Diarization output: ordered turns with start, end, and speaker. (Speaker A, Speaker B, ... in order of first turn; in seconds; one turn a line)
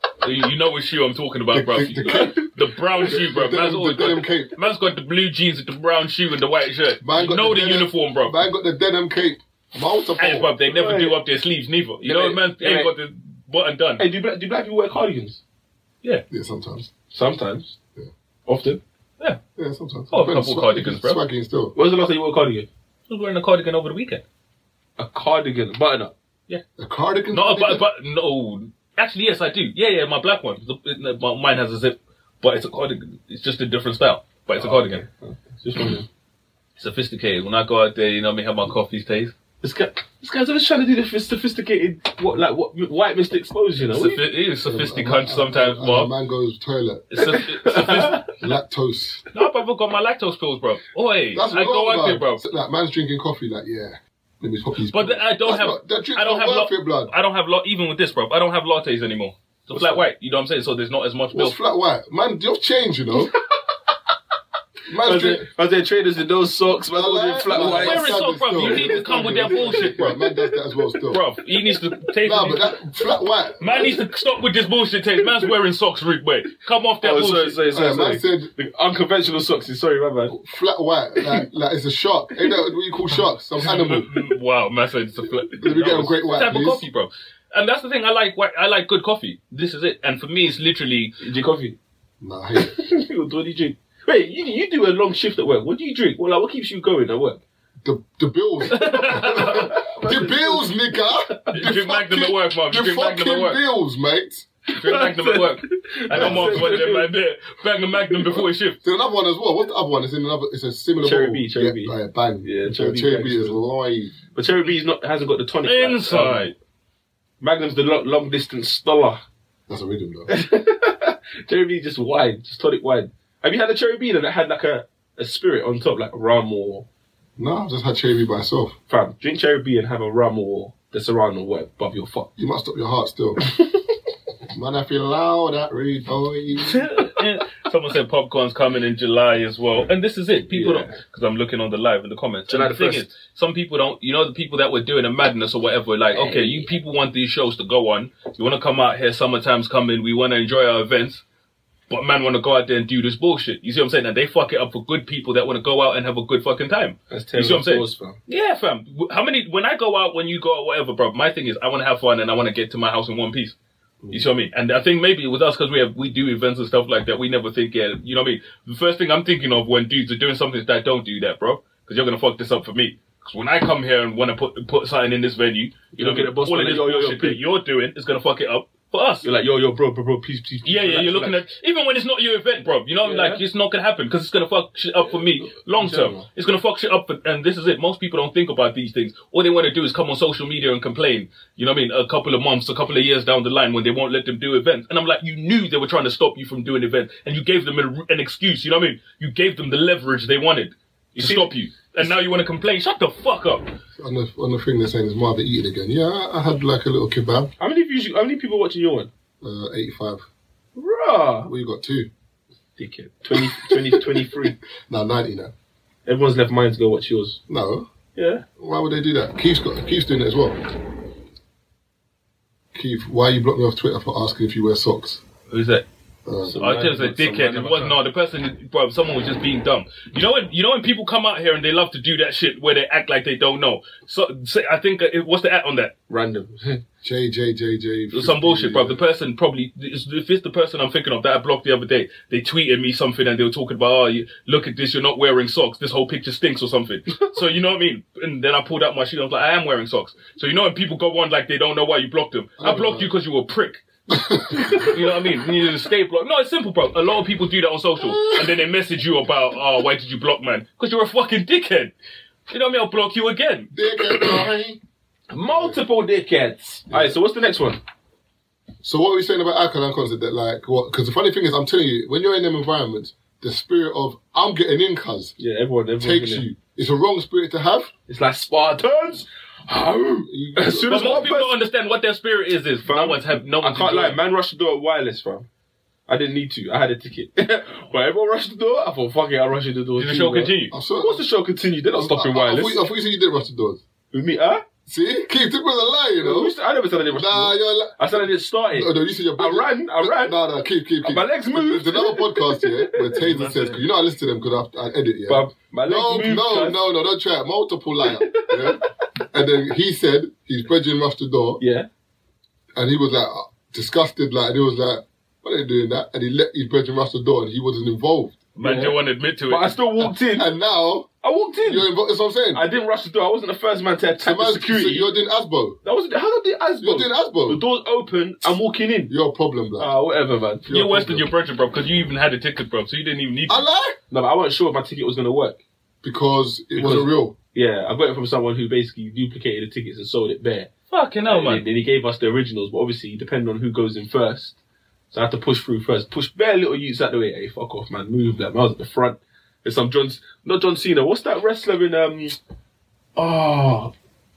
Speaker A: 0.2-8.4
Speaker B: 1.5-2.5
Speaker C: 2.1-2.4
Speaker B: 3.1-4.5
Speaker B: 7.0-10.5
Speaker A: 10.2-14.1
Speaker C: 10.7-11.2
Speaker C: 12.0-12.9
Speaker C: 14.0-15.4
Speaker B: 16.3-16.9
Speaker C: 17.1-17.8
Speaker C: 18.5-18.8
Speaker B: 19.6-21.7
Speaker A: 20.1-21.2
Speaker C: 21.8-22.7
Speaker A: 23.1-24.2
Speaker C: 25.0-26.2
Speaker B: 26.8-27.9
Speaker A: 27.3-35.0
Speaker C: 34.6-36.1
Speaker A: 36.8-39.3
Speaker C: 39.6-44.2
Speaker A: 43.9-46.1
Speaker B: 44.6-47.1
Speaker A: 47.1-48.3
Speaker C: 47.2-48.2
Speaker B: 48.4-49.2
Speaker A: 49.3-52.4
Speaker B: 51.3-57.1
Speaker A: 54.9-61.6
Speaker B: 61.3-63.4
Speaker B: 64.9-65.5
Speaker C: 65.0-68.1
Speaker B: 66.9-71.2
Speaker A: 67.5-70.2
Speaker C: 68.6-70.3
Speaker A: 71.1-72.7
Speaker B: 72.2-74.0
Speaker A: 73.6-77.6
Speaker C: 77.0-80.3
Speaker B: 77.7-78.5
Speaker B: 80.3-84.1
Speaker A: 83.6-91.1
Speaker B: 85.6-86.9
Speaker C: 91.2-91.8
Speaker B: 92.2-92.8
Speaker C: 92.7-97.4
Speaker B: 97.8-104.5
Speaker A: 98.7-99.8
Speaker C: 98.8-100.7
Speaker A: 101.5-103.6
Speaker C: 104.7-107.1
Speaker A: 104.8-108.8
Speaker B: 106.1-106.8
Speaker B: 108.8-114.2
Speaker C: 111.0-113.6
Speaker C: 114.3-116.5
Speaker A: 115.6-116.5
Speaker C: 117.4-119.2
Speaker B: 119.7-120.3
Speaker C: 120.3-126.9
Speaker B: 127.4-128.8
Speaker C: 128.9-132.3
Speaker B: 132.4-133.4
Speaker B: 134.5-136.9
Speaker A: 136.8-151.2
Speaker C: 140.5-141.0
Speaker C: 142.5-143.1
Speaker C: 146.1-146.7
Speaker A: 151.9-163.6
Speaker C: 157.1-158.2
Speaker A: 164.1-179.3
Speaker C: 175.9-177.4
Speaker C: 179.2-181.4
Speaker A: 180.7-203.7
Speaker C: 183.0-183.4
Speaker C: 185.1-186.3
Speaker C: 201.2-202.1
Speaker B: 204.0-207.5
Speaker C: 207.6-209.1
Speaker B: 209.4-210.2
Speaker C: 210.8-211.5
Speaker B: 211.5-212.1
Speaker C: 212.8-214.6
Speaker B: 213.3-214.2
Speaker B: 214.9-215.5
Speaker C: 216.1-217.4
Speaker B: 217.5-217.9
Speaker C: 218.2-218.4
Speaker B: 218.6-220.6
Speaker B: 222.7-225.2
Speaker A: 225.5-225.9
Speaker B: 226.3-226.6
Speaker C: 226.4-228.0
Speaker A: 226.6-235.9
Speaker C: 236.1-236.8
Speaker B: 237.0-239.0
Speaker A: 238.1-253.9
Speaker B: 252.6-253.1
Speaker B: 254.1-255.1
Speaker A: 254.7-261.9
Speaker A: 262.5-264.4
Speaker B: 263.7-264.8
Speaker C: 265.3-267.8
Speaker B: 265.5-265.8
Speaker B: 268.8-275.4
Speaker C: 275.4-276.5
Speaker B: 276.0-277.9
Speaker C: 278.1-281.5
Speaker B: 280.3-281.3
Speaker A: 280.9-284.2
Speaker C: 282.8-285.5
Speaker C: 286.1-292.8
Speaker A: 290.0-290.7
Speaker B: 290.7-291.2
Speaker B: 291.9-293.8
Speaker C: 294.1-294.6
Speaker B: 294.9-296.6
Speaker C: 296.2-300.4
Speaker B: 297.1-298.1
Speaker B: 298.7-311.6
Speaker C: 301.0-303.1
Speaker A: 303.2-303.9
Speaker C: 305.3-306.8
Speaker C: 308.1-308.8
Speaker C: 311.6-311.9
Speaker B: 312.8-318.4
Speaker A: 318.6-319.8
Speaker C: 318.6-319.0
Speaker C: 319.5-320.5
Speaker B: 320.0-321.1
Speaker C: 321.2-321.9
Speaker B: 321.6-322.6
Speaker C: 322.5-325.1
Speaker B: 324.2-325.8
Speaker C: 325.8-329.1
Speaker B: 326.8-327.6
Speaker B: 329.1-329.9
Speaker C: 329.8-330.7
Speaker B: 330.7-331.3
Speaker A: 330.7-333.6
Speaker B: 333.5-334.0
Speaker C: 334.1-335.6
Speaker B: 336.0-337.4
Speaker C: 336.8-340.7
Speaker A: 340.9-341.6
Speaker C: 341.2-344.6
Speaker C: 345.1-352.4
Speaker C: 353.2-353.9